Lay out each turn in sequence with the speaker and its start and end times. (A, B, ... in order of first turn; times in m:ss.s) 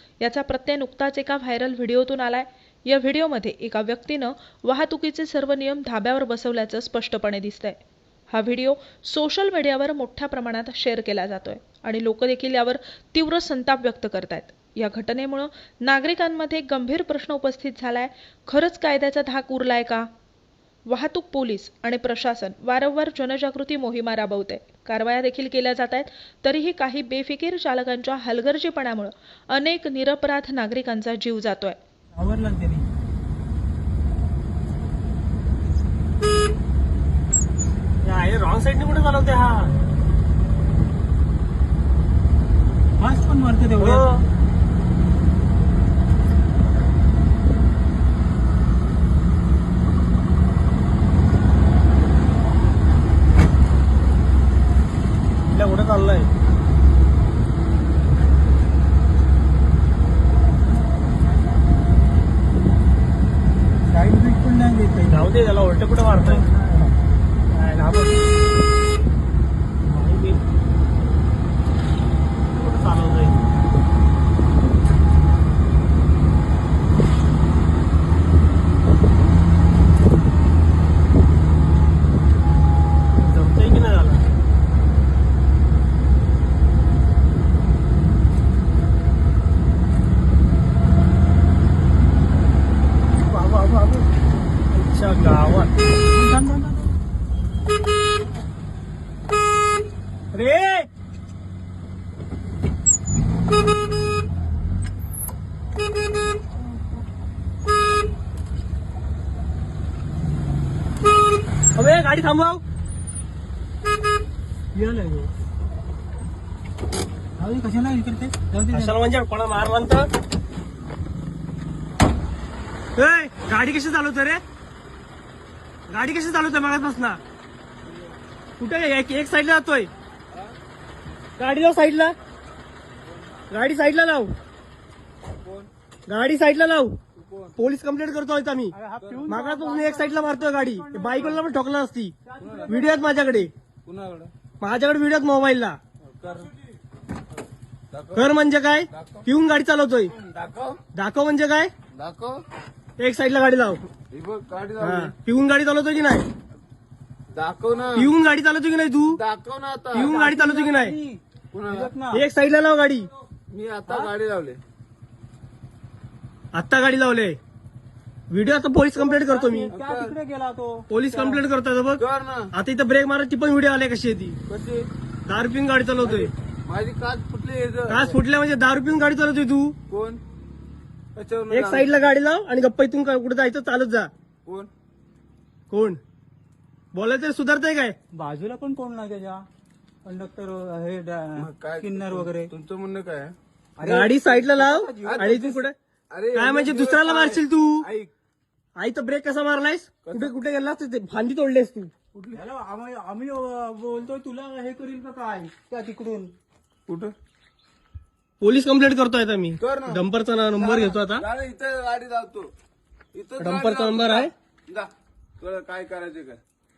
0:00.2-0:20.1 A
0:20.9-0:31.8 A
0:32.2-0:32.9 B
0:38.0-0:39.8 C
0:43.0-0:44.0 B
0:43.8-0:44.2 C
0:55.5-0:56.3 C
1:03.9-1:05.3 B
1:05.1-1:06.5 C
1:06.2-1:06.9 B
1:07.5-1:08.2 C
1:09.8-1:10.4 C
1:12.5-1:13.4 C
1:23.2-1:24.3 C
1:33.3-1:34.1 C
1:34.7-1:35.7 C
1:36.1-1:36.9 B
1:40.3-1:40.9 C
1:51.8-1:52.6 C
1:54.8-1:55.3 B
1:57.4-1:59.0 B
1:58.7-2:00.1 C
2:03.0-2:04.4 C
2:05.9-2:07.2 C
2:08.6-2:09.9 C
2:11.4-2:12.2 C
2:13.5-2:14.3 C
2:15.4-2:15.7 D
2:16.1-2:17.0 C
2:17.2-2:17.6 D
2:17.6-2:22.2 C
2:18.7-2:21.4 B
2:19.0-2:19.4 D
2:22.3-2:23.2 B
2:22.4-2:22.8 D
2:22.7-2:23.5 C
2:23.8-2:24.3 D
2:24.6-2:25.8 C
2:26.1-2:26.5 D
2:27.9-2:28.3 D
2:28.2-2:30.1 C
2:28.9-2:29.2 D
2:30.1-2:30.8 D
2:30.9-2:31.7 C
2:31.9-2:32.4 D
2:33.0-2:33.8 C
2:34.1-2:35.1 D
2:34.8-2:36.3 C
2:37.3-2:38.1 D
2:38.0-2:39.2 C
2:39.1-2:40.2 D
2:39.9-2:41.0 C
2:40.0-2:42.2 B
2:41.5-2:41.9 D
2:42.1-2:43.1 C
2:43.5-2:44.6 D
2:46.5-2:47.4 C
2:48.3-2:49.7 C
2:49.0-2:51.4 B
2:49.7-2:50.2 D
2:50.9-2:52.0 C
2:52.0-2:52.5 D
2:52.5-2:54.4 C
2:54.5-2:54.9 D
2:55.3-2:56.3 C
2:56.0-2:58.2 D
2:57.9-2:59.8 C
2:59.9-3:00.2 D
3:01.2-3:01.9 D
3:01.5-3:04.1 C
3:04.4-3:04.7 D
3:05.7-3:06.0 C
3:06.9-3:08.0 C
3:08.1-3:09.4 B
3:10.0-3:12.5 B
3:11.4-3:13.4 D
3:13.8-3:15.2 B
3:13.8-3:15.8 C
3:14.6-3:18.1 D
3:16.3-3:17.9 C
3:18.8-3:21.9 C
3:20.0-3:20.3 D
3:22.2-3:26.3 B
3:26.9-3:27.1 D
3:28.4-3:31.2 C
3:29.6-3:30.0 D
3:30.6-3:32.5 D
3:33.1-3:36.4 D
3:33.4-3:34.3 C